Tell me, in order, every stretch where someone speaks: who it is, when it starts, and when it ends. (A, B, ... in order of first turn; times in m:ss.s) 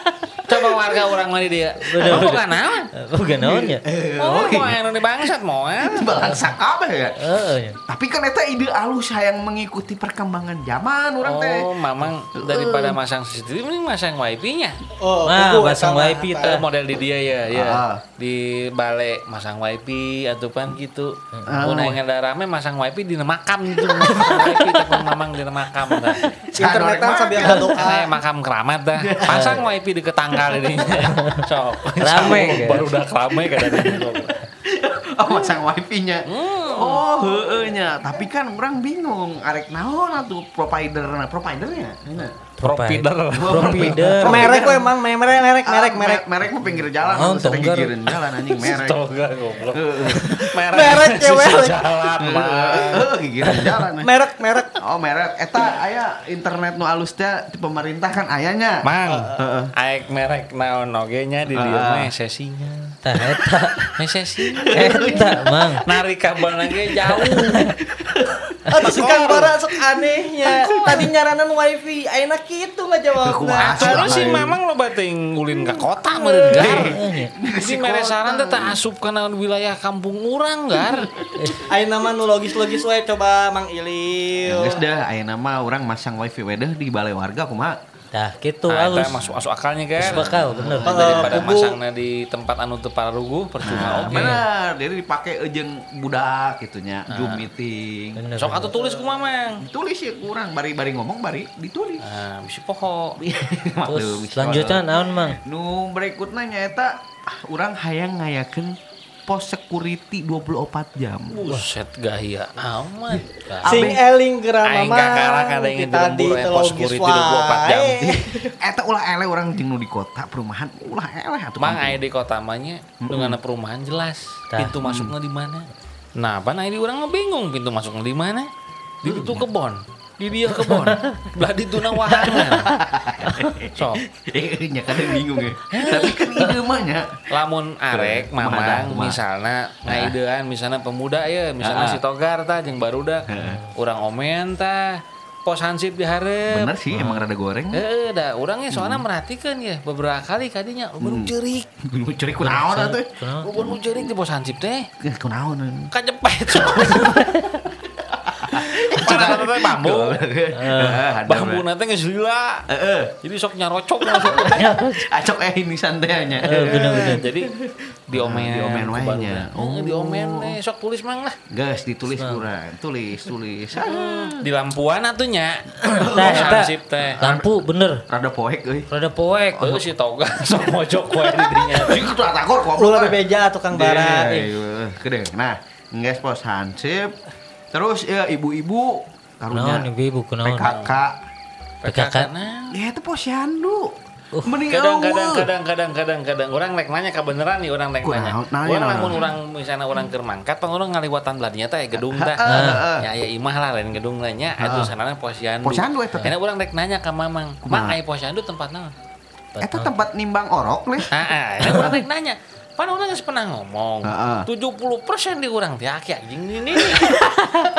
0:00.4-0:02.9 A
0:01.8-0:03.8 B
0:02.0-0:02.4 C
0:03.2-0:04.8 C
0:04.2-0:06.1 A
0:05.8-0:11.7 C
0:06.2-0:06.5 B
0:07.2-0:07.8 B
0:11.2-0:14.8 A
0:12.4-0:13.0 C
0:15.0-0:16.6 D
0:15.2-0:16.6 B
0:16.4-0:26.2 A
0:17.5-0:18.0 C
0:21.5-0:22.0 C
0:23.8-0:25.0 C
0:26.1-0:28.0 C
0:26.5-0:28.1 D
0:27.4-0:27.7 B
0:27.4-0:34.4 A
0:29.0-0:29.6 C
0:29.3-0:29.6 B
0:30.3-0:31.2 C
0:31.0-0:31.4 B
0:32.0-0:33.0 B
0:32.1-0:32.6 C
0:33.6-0:34.0 C
0:34.6-0:42.4 C
0:36.3-0:37.1 A
0:42.6-0:44.5 B
0:42.6-0:44.6 A
0:43.3-0:45.0 C
0:44.1-0:46.2 D
0:45.6-0:49.0 C
0:47.1-0:48.1 B
0:48.5-0:53.8 A
0:49.7-0:50.5 C
0:50.7-0:51.9 D
0:52.2-0:54.1 C
0:54.0-0:54.8 D
0:54.8-0:59.7 C
0:58.8-1:03.0 A
0:59.1-0:59.3 D
1:01.5-1:02.1 C
1:03.0-1:03.9 B
1:03.2-1:03.9 C
1:04.0-1:05.0 A
1:04.5-1:05.7 C
1:04.7-1:05.8 B
1:05.8-1:07.6 A
1:06.6-1:08.5 C
1:07.4-1:07.8 B
1:08.7-1:14.3 D
1:08.8-1:09.6 A
1:10.4-1:11.1 C
1:13.1-1:14.6 C
1:13.6-1:17.0 A
1:16.2-1:16.6 D
1:16.5-1:18.8 C
1:16.5-1:17.3 B
1:17.5-1:21.1 A
1:20.8-1:21.6 C
1:21.4-1:21.6 B
1:21.7-1:24.8 D
1:24.5-1:27.8 C
1:28.1-1:29.2 B
1:28.7-1:34.4 A
1:30.0-1:31.4 C
1:30.0-1:31.2 B
1:30.9-1:31.8 D
1:33.6-1:38.3 C
1:34.1-1:34.4 B
1:37.1-1:37.5 A
1:38.2-1:38.7 B
1:38.4-1:39.6 A
1:39.6-1:42.0 C
1:42.0-1:43.2 A
1:43.2-1:48.8 C
1:43.9-1:45.4 B
1:49.3-1:51.5 C
1:51.3-1:53.9 A
1:53.1-1:54.0 C
1:53.6-1:58.5 D
1:54.6-1:58.0 A
1:58.0-2:02.0 C
2:01.6-2:08.5 A
2:03.0-2:03.4 C
2:04.8-2:05.1 C
2:09.0-2:12.8 A
2:09.1-2:09.5 C
2:10.5-2:11.1 B
2:12.0-2:17.1 C
2:13.7-2:14.0 A
2:15.7-2:16.5 A
2:17.3-2:27.2 A
2:17.9-2:19.2 C
2:19.9-2:20.2 C
2:21.6-2:22.0 C
2:23.3-2:23.6 C
2:23.4-2:23.7 B
2:26.5-2:27.8 C
2:27.7-2:31.7 A
2:28.7-2:29.1 C
2:31.0-2:33.8 C
2:32.4-2:33.5 B
2:33.4-2:34.9 A
2:35.0-2:35.9 C
2:35.9-2:37.4 A
2:36.5-2:37.1 C
2:36.7-2:37.6 B
2:37.8-2:41.6 C
2:38.4-2:40.2 A
2:40.6-2:41.0 B
2:41.2-2:42.7 A
2:42.7-2:43.2 C
2:43.2-2:44.7 A
2:44.0-2:50.6 C
2:44.5-2:45.1 B
2:46.4-2:47.3 B
2:46.6-2:47.5 A
2:48.1-2:51.4 A
2:51.5-2:54.5 C
2:52.2-2:52.4 B
2:53.8-2:57.2 A
2:55.8-2:58.0 B
2:55.8-2:57.5 C
2:58.1-2:58.9 C
2:58.9-2:59.8 B
2:59.6-3:02.1 A
3:01.6-3:03.2 C
3:02.8-3:04.5 D
3:03.7-3:07.2 C
3:07.7-3:09.9 C
3:09.5-3:10.7 B
3:10.4-3:11.2 C
3:10.6-3:10.9 A
3:11.8-3:12.8 A
3:11.9-3:12.3 B
3:12.7-3:15.5 C
3:14.3-3:14.6 B
3:14.7-3:28.9 A
3:18.0-3:19.3 C
3:21.9-3:23.1 C
3:22.4-3:22.9 B
3:24.6-3:24.9 C
3:25.6-3:26.3 C
3:27.6-3:28.0 C
3:29.6-3:29.9 B
3:29.6-3:32.0 C
3:31.1-3:37.3 A
3:34.0-3:34.5 C